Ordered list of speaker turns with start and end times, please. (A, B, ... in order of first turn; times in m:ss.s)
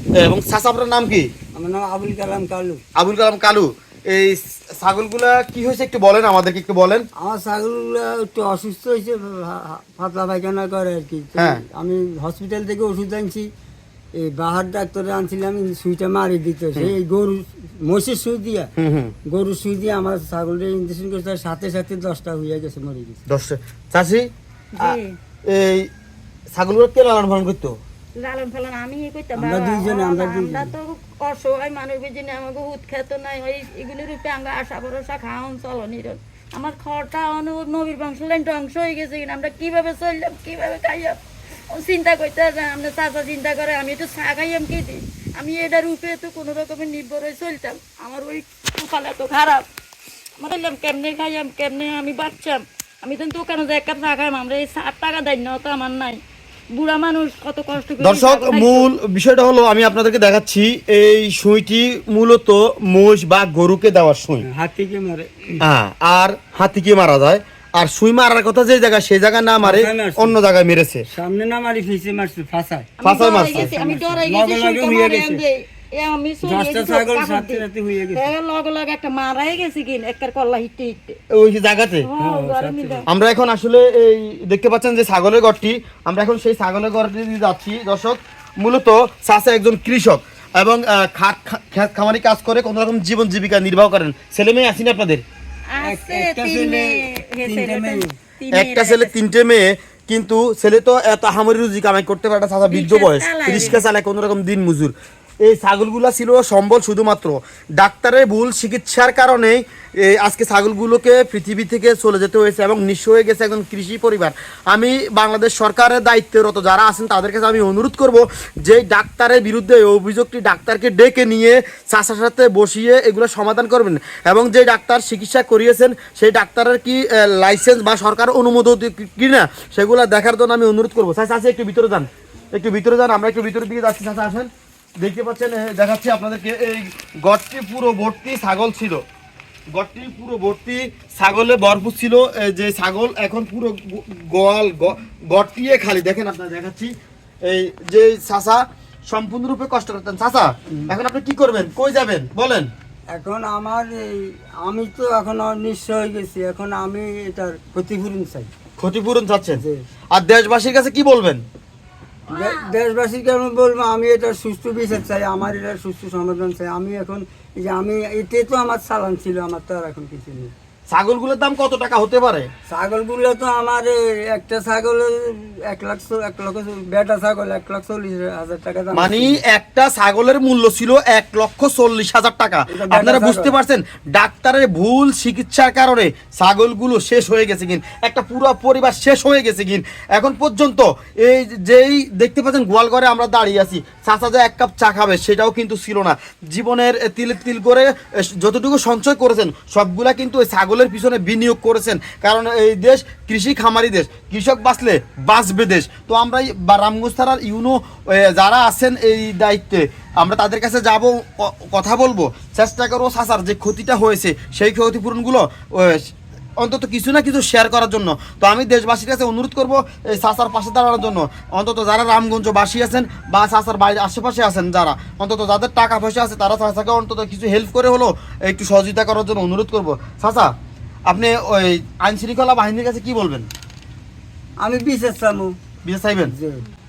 0:00.2-0:01.3 A
0:01.5-0:02.8 B
0:03.0-0:07.0 A
0:07.2-0:13.5 B
0:11.3-0:11.6 A
0:14.2-0:18.7 B
0:18.8-0:19.1 A
0:19.3-0:23.2 B
0:23.3-0:24.3 A
0:24.7-0:25.1 C
0:24.8-0:25.9 A
0:26.5-0:27.8 A
0:28.2-0:41.2 C
0:29.3-0:30.7 B
0:41.7-0:49.6 C
0:50.4-0:56.2 C
0:56.7-0:58.9 C
0:58.0-1:04.5 A
1:04.4-1:05.6 B
1:05.6-1:11.0 A
1:09.6-1:10.4 B
1:11.1-1:15.4 B
1:13.0-1:17.6 C
1:13.0-1:13.7 A
1:16.4-1:18.3 B
1:18.1-1:21.2 C
1:21.3-1:22.1 A
1:22.0-1:23.0 C
1:22.2-1:23.0 B
1:23.1-1:35.2 A
1:35.7-1:39.1 C
1:35.8-1:38.1 B
1:38.5-2:14.5 A
1:42.6-1:43.8 C
2:15.0-2:19.0 A
2:19.7-2:32.7 A
2:33.1-2:38.5 B
2:38.8-2:39.6 A
2:40.1-2:41.4 A
2:42.3-2:50.5 B
2:42.3-2:42.6 C
2:50.9-2:52.5 A
2:52.7-2:59.4 B
2:58.9-3:50.5 A
3:02.7-3:03.6 B
3:51.1-3:53.5 A
3:54.6-3:55.5 B
3:55.8-3:56.3 A
3:56.3-3:56.6 B